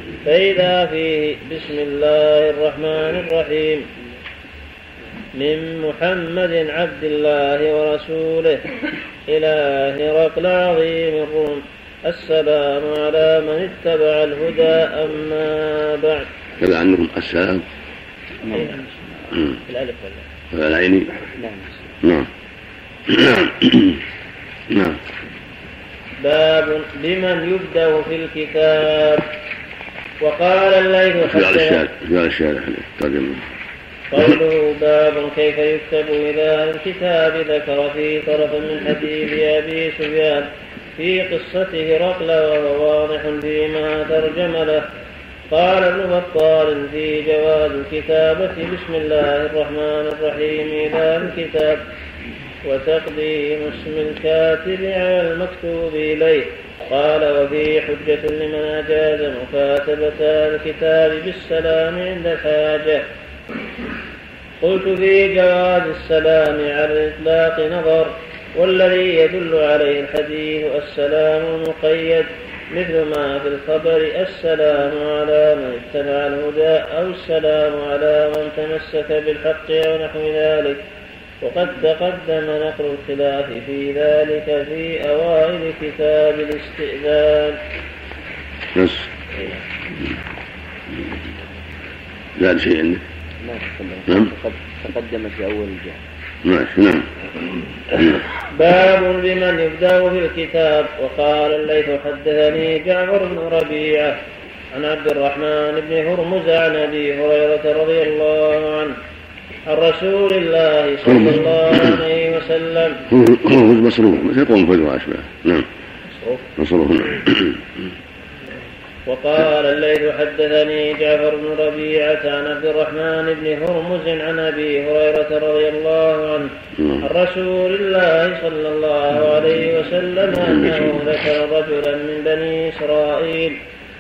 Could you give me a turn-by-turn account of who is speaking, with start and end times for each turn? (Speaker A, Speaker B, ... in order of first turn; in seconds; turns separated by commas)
Speaker A: 0.2-3.9, Speaker A: 5.4-8.6, Speaker A: 9.3-16.3, Speaker B: 16.6-17.6, Speaker A: 18.5-18.9, Speaker A: 19.7-20.2, Speaker B: 20.5-21.1, Speaker C: 21.4-21.9, Speaker B: 22.0-22.3, Speaker B: 23.1-24.0, Speaker B: 24.7-25.0, Speaker A: 26.2-29.3, Speaker A: 30.2-31.8, Speaker B: 31.2-33.4, Speaker A: 34.1-44.8, Speaker A: 45.5-51.8, Speaker A: 52.6-63.0, Speaker A: 64.6-80.8, Speaker A: 81.4-87.6, Speaker B: 88.7-89.1, Speaker B: 92.4-93.0, Speaker C: 93.4-96.0, Speaker B: 94.1-94.3, Speaker B: 96.5-97.1, Speaker B: 97.9-98.2, Speaker A: 98.5-104.2, Speaker A: 104.7-109.0, Speaker A: 109.7-113.0, Speaker B: 111.1-111.3, Speaker B: 113.1-115.7, Speaker B: 116.6-117.8, Speaker A: 119.1-126.5, Speaker B: 126.8-127.1, Speaker A: 127.0-133.6